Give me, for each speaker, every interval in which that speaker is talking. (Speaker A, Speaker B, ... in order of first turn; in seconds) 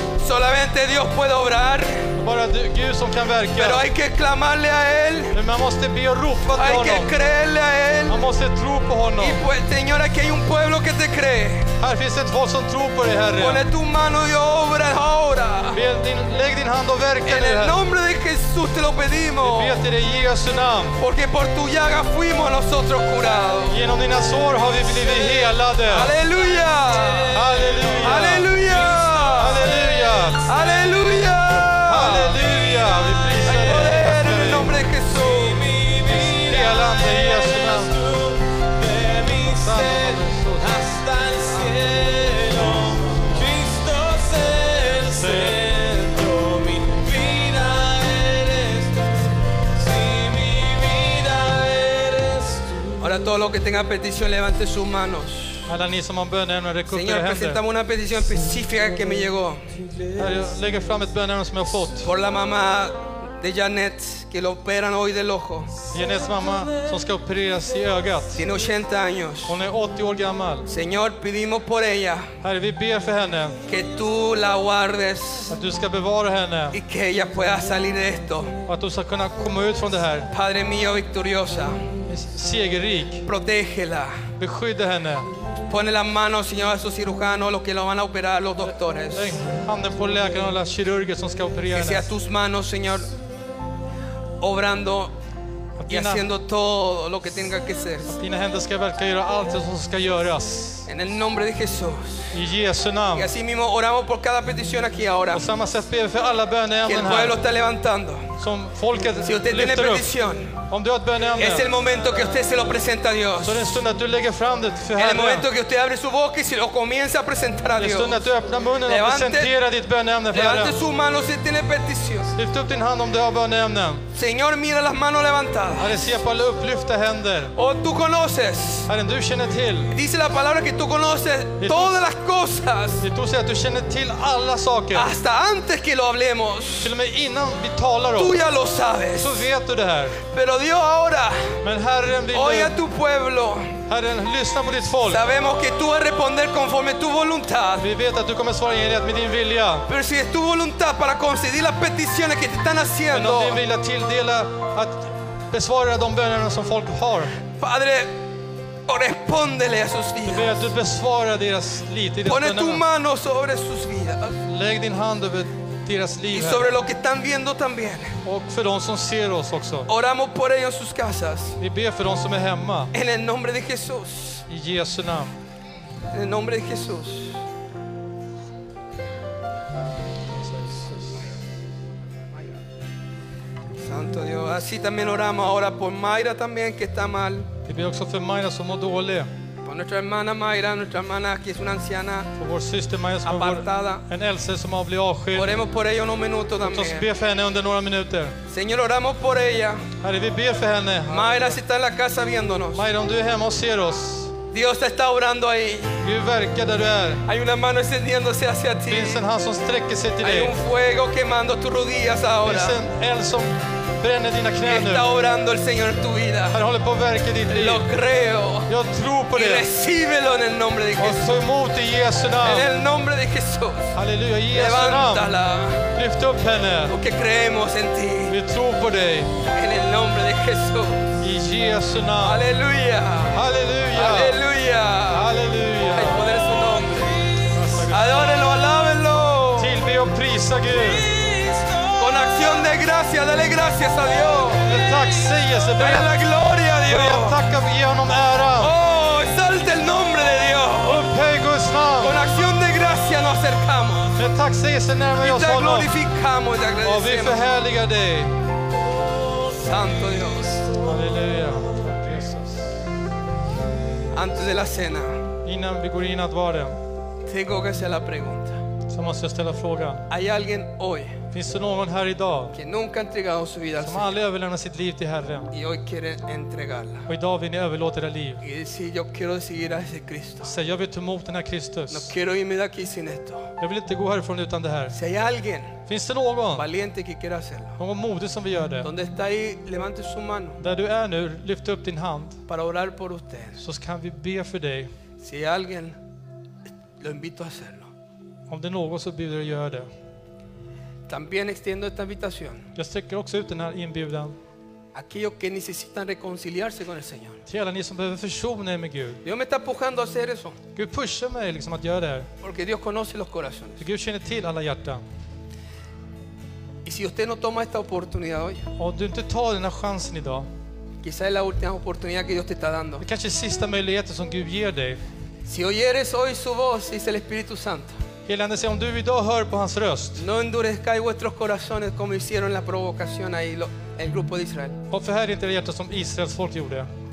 Speaker A: 0.2-2.1, 3.6-5.4, 6.6-8.2, 9.2-11.7, 13.4-15.8, 17.3-19.8, 21.0-23.8, 25.9-27.4, 28.0-29.7, 30.5-32.4, 33.5-35.6, 53.0-55.7, 56.9-59.7, 62.0-65.7, 68.4-69.6, 70.7-72.3, 73.7-75.5, 76.7-78.5, 80.3-81.8, 83.3-84.2, 85.7-89.4, 91.7-93.1, 94.4-95.1, 95.9-98.1, 100.9-102.3, 103.2-105.5, 106.9-108.3, 109.2-110.6, 111.4-113.7, 115.0-118.2, 118.9-119.5, 120.3-122.3, 124.2-126.1, 127.6-128.9, 129.9-133.1, 134.9-136.9, 138.2-139.5, 140.3-141.6, 142.3-143.8, 145.1-147.9, 149.9-153.6, 157.6-158.1, 158.9-160.7, 162.2-164.4, 166.3-168.2, 169.9-171.6, 172.9-174.4, 176.1-177.4, 183.8-187.5, 189.7-192.3, 193.2-194.0, 195.3-197.1, 198.5-199.8, 201.1-202.8, 204.5-206.0, 207.3-209.2, 210.2-212.8, 214.7-216.6, 217.5-218.7, 219.3-221.5, 222.4-223.9, 224.5-225.9, 226.9-228.4, 229.5-231.1, 232.2-233.4, 233.9-235.3, 235.9-237.2, 237.9-239.8, 242.0-244.7, 245.8-247.4, 248.6-251.1, 252.0-254.2, 255.2-257.4, 259.6-260.6, 264.1-265.2, 267.3-268.6, 270.1-271.2, 272.5-274.1, 275.5-277.1, 278.4-280.5, 281.9-283.5, 284.9-285.8, 286.6-287.8, 288.8-290.6, 292.5-293.6, 295.2-296.0, 297.0-297.9, 301.1-302.6, 304.9-307.4, 309.2-310.6, 312.4-313.8, 316.9-318.7, 321.0-323.0, 325.5-328.0, 330.2-334.8
Speaker B: 2.2-3.9, 5.3-7.1, 8.1-9.4, 11.8-13.6, 15.7-17.8, 19.4-21.0, 23.7-26.1, 27.3-28.5, 29.4-30.5, 31.9-34.7, 36.1-38.0, 39.6-40.9, 45.2-45.6, 55.7-57.6, 60.2-62.1, 65.9-68.5, 69.5-70.7, 72.4-73.6, 75.5-76.8, 78.7-80.3, 82.1-83.2, 84.4-85.3, 88.6-92.1, 95.8-96.3, 98.0-100.9, 102.3-103.3, 105.3-107.4, 108.4-110.1, 110.7-111.7, 113.4-115.5, 117.8-120.8, 122.3-124.0, 125.8-127.5, 128.9-129.9, 131.6-132.0, 133.0-135.1, 136.8-138.4, 139.2-140.2, 141.6-142.8, 143.9-145.2, 147.8-149.8, 153.1-157.3, 160.2-162.8, 164.5-166.8, 168.2-169.9, 171.6-172.9, 174.5-175.4, 180.3-181.2, 187.7-189.3, 192.4-195.5, 196.6-198.4, 200.0-201.6, 202.7-204.3, 206.0-207.2, 208.9-210.5, 212.4-215.1, 216.5-217.9, 218.7-219.7, 221.0-222.7, 223.9-225.3, 225.9-226.9, 228.3-229.3, 231.2-232.4, 233.3-234.4, 235.1-236.2, 237.5-238.4, 239.6-241.1, 244.6-246.1, 246.9-248.7, 250.8-252.2, 254.2-255.9, 256.8-258.3, 260.8-262.7, 265.4-266.8, 268.9-270.0, 271.3-272.6, 273.8-275.5, 277.1-278.4, 280.4-282.1, 283.6-284.9, 285.9-286.7, 287.8-288.9, 290.6-292.4, 293.6-294.9, 298.5-299.9, 302.8-304.4, 307.5-309.2, 310.8-312.3, 313.8-315.0, 318.8-320.5, 323.0-325.0, 328.3-330.2, 334.9-336.9
Speaker C: 26.1-31.2, 32.2-34.5, 35.1-53.3, 58.2-60.9, 65.9-66.9, 236.3-237.6, 240.7-242.8, 244.3-245.7, 258.7-262.0, 263.8-264.4